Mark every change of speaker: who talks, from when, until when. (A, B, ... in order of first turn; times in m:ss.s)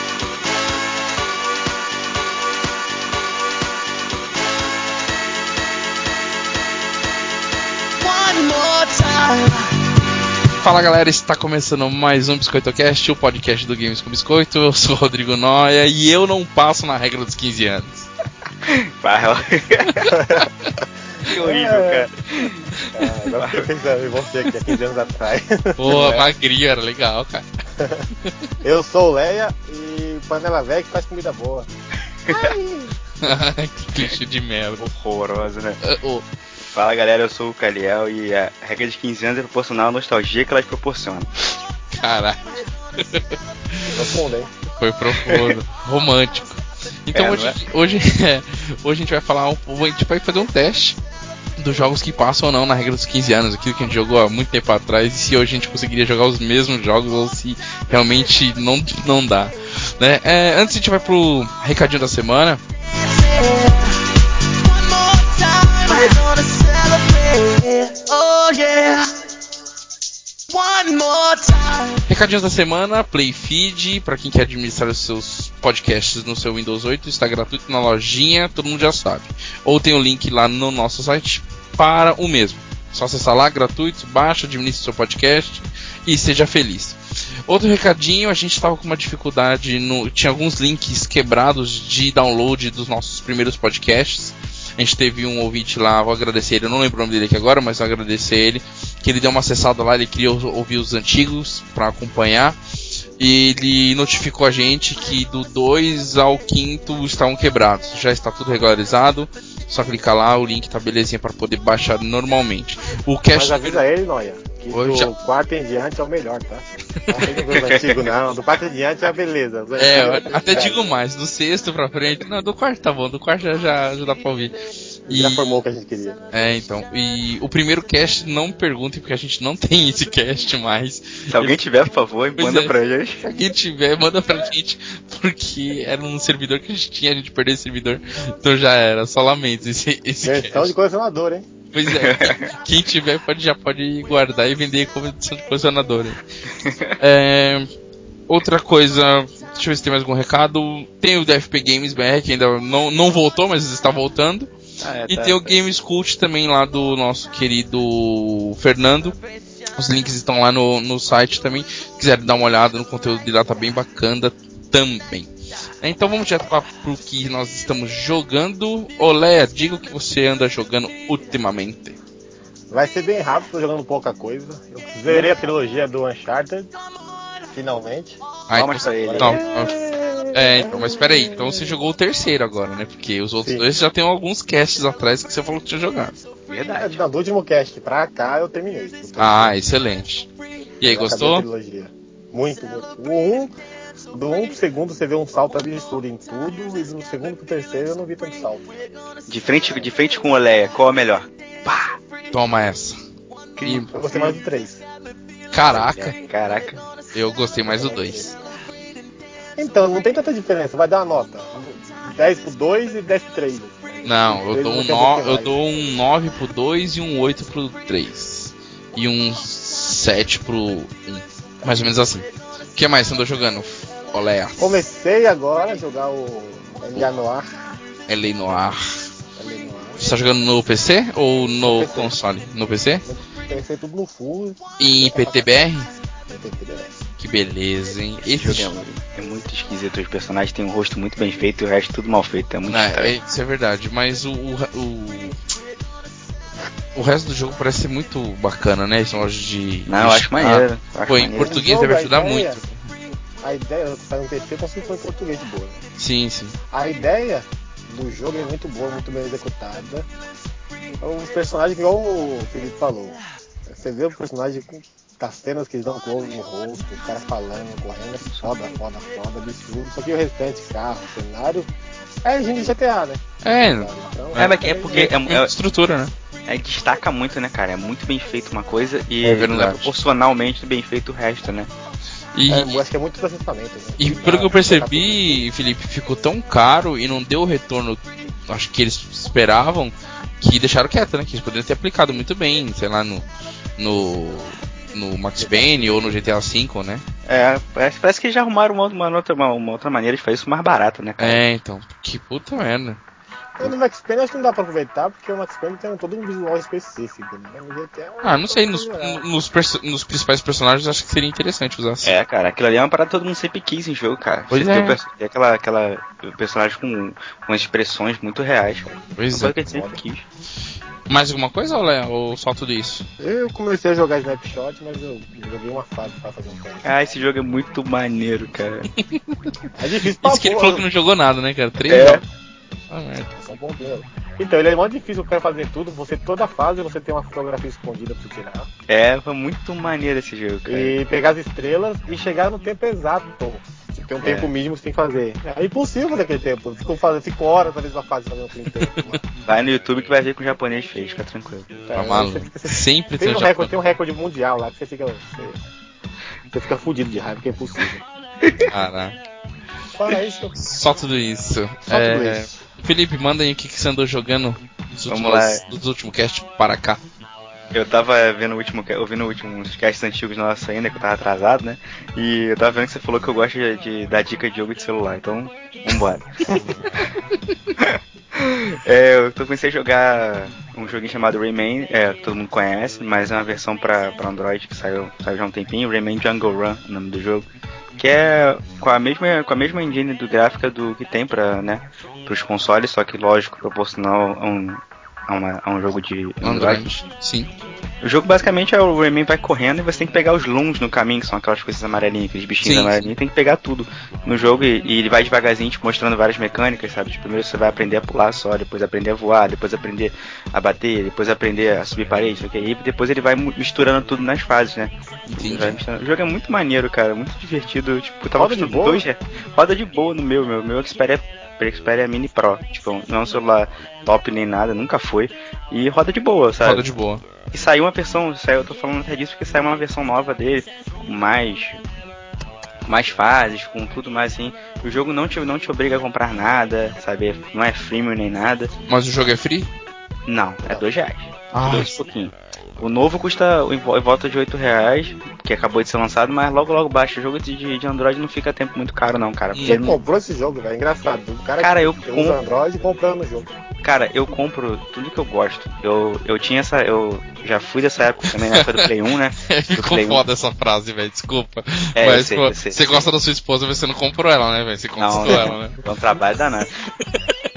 0:08.0-0:09.7 A
0:10.6-0:18.1 B
0:18.6-0:20.1 C
0:20.1-0:20.5 D
0:21.2-0:22.1 D
0:21.2-0:22.7 C
0:22.9-0:26.3 D
0:23.3-0:23.6 C
0:25.8-0:27.4 B
0:27.8-0:28.1 D
0:28.6-0:31.7 D
0:32.3-0:32.5 C
0:32.3-0:32.9 D
0:33.2-0:34.9 B
0:34.8-0:35.8 C
0:35.8-0:36.2 B
0:36.7-0:41.6 C
0:41.9-0:44.0 B
0:43.9-0:44.5 D
0:44.7-0:51.0 B
0:45.2-0:45.5 C
0:47.1-0:47.6 C
0:51.6-1:02.6 B
1:02.8-1:09.1 A
1:10.5-1:12.0 A
1:12.1-1:42.6 B
1:43.2-1:53.8 B
1:53.3-2:00.9 D
1:54.7-1:55.1 B
1:57.6-1:58.1 C
1:59.8-2:05.5 B
2:05.1-2:06.2 D
2:06.3-2:11.6 B
2:11.3-2:13.2 C
2:12.4-2:20.7 B
2:20.2-2:21.5 D
2:21.7-2:26.2 B
2:21.8-2:22.5 C
2:26.5-2:27.0 C
2:27.0-2:27.7 B
2:28.3-2:34.5 B
2:34.8-2:35.6 C
2:35.1-2:39.2 B
2:39.7-2:45.3 B
2:45.8-2:52.0 B
2:52.7-2:56.7 D
2:55.1-2:55.3 C
2:57.5-2:58.2 D
2:58.5-2:59.7 B
2:58.5-2:59.4 C
2:59.0-3:01.2 D
3:00.3-3:06.2 B
3:06.5-3:07.0 C
3:06.8-3:09.5 D
3:09.2-3:10.3 B
3:10.8-3:11.4 B
3:10.8-3:13.5 D
3:14.1-3:18.8 D
3:19.3-3:22.0 C
3:22.3-3:23.0 B
3:23.6-3:24.4 C
3:23.6-3:23.9 B
3:23.9-3:24.8 D
3:25.5-3:26.1 B
3:25.6-3:26.8 C
3:27.1-3:28.3 B
3:27.7-3:28.3 D
3:29.6-3:35.5 D
3:34.0-3:44.8 B
3:41.6-3:42.1 D
3:44.6-3:47.5 D
3:48.1-3:48.8 B
3:49.4-3:50.0 D
3:50.0-3:53.0 B
3:51.6-3:52.1 D
3:53.0-3:55.7 D
3:54.8-3:55.9 B
3:56.3-3:57.0 D
3:57.2-3:58.7 B
3:58.2-4:03.1 C
4:02.7-4:05.4 B
4:06.9-4:12.7 B
4:09.9-4:11.6 C
4:11.4-4:12.6 D
4:13.4-4:15.8 D
4:16.0-4:16.6 B
4:16.7-4:20.1 D
4:21.0-4:31.7 D
4:32.2-4:35.1 D
4:33.4-4:36.1 B
4:34.4-4:35.5 C
4:36.4-4:41.7 C
4:39.2-4:39.9 B
4:42.3-4:42.8 B
4:42.5-4:45.4 D
4:44.0-4:53.2 B
4:53.8-4:57.0 B
4:55.4-4:56.1 D
4:57.2-5:01.4 C
5:01.2-5:03.0 B
5:03.6-5:09.2 D
5:08.2-5:12.2 B
5:12.0-5:20.3 C
5:14.5-5:15.0 B
5:19.2-5:19.8 B
5:21.1-5:23.1 B
5:23.2-5:26.9 D
5:26.8-5:28.9 C
5:29.8-5:30.8 D
5:30.2-5:32.2 B
5:31.9-5:32.2 C
5:31.9-5:32.2 D
5:32.9-5:33.3 B
5:33.3-5:38.7 D
5:38.9-5:40.9 C
5:40.6-5:49.2 D
5:44.2-5:44.5 C
5:49.4-5:51.8 C
5:51.9-5:55.6 D
5:51.9-5:53.7 B
5:56.5-5:58.0 D
5:58.4-5:58.7 C
5:58.7-5:59.2 B
5:59.9-6:00.6 D
6:00.6-6:07.0 B
6:01.9-6:02.5 D
6:05.1-6:05.6 C
6:07.7-6:17.0 C
6:17.8-6:27.4 C
6:28.0-6:36.9 C
6:36.4-6:37.5 B
6:38.0-7:06.8 C
6:42.6-6:43.1 B
6:55.3-6:55.8 B
6:58.3-6:59.0 D
7:06.6-7:07.2 B
7:07.5-7:11.8 C
7:12.8-7:18.7 C
7:18.9-7:19.7 B
7:20.3-7:30.0 C
7:21.5-7:21.9 B
7:29.5-7:30.0 B
7:29.6-7:33.5 D
7:31.6-7:32.4 C
7:33.8-7:40.2 C
7:39.4-7:45.8 B
7:42.0-7:43.1 C
7:45.0-7:46.7 C
7:45.3-7:45.5 D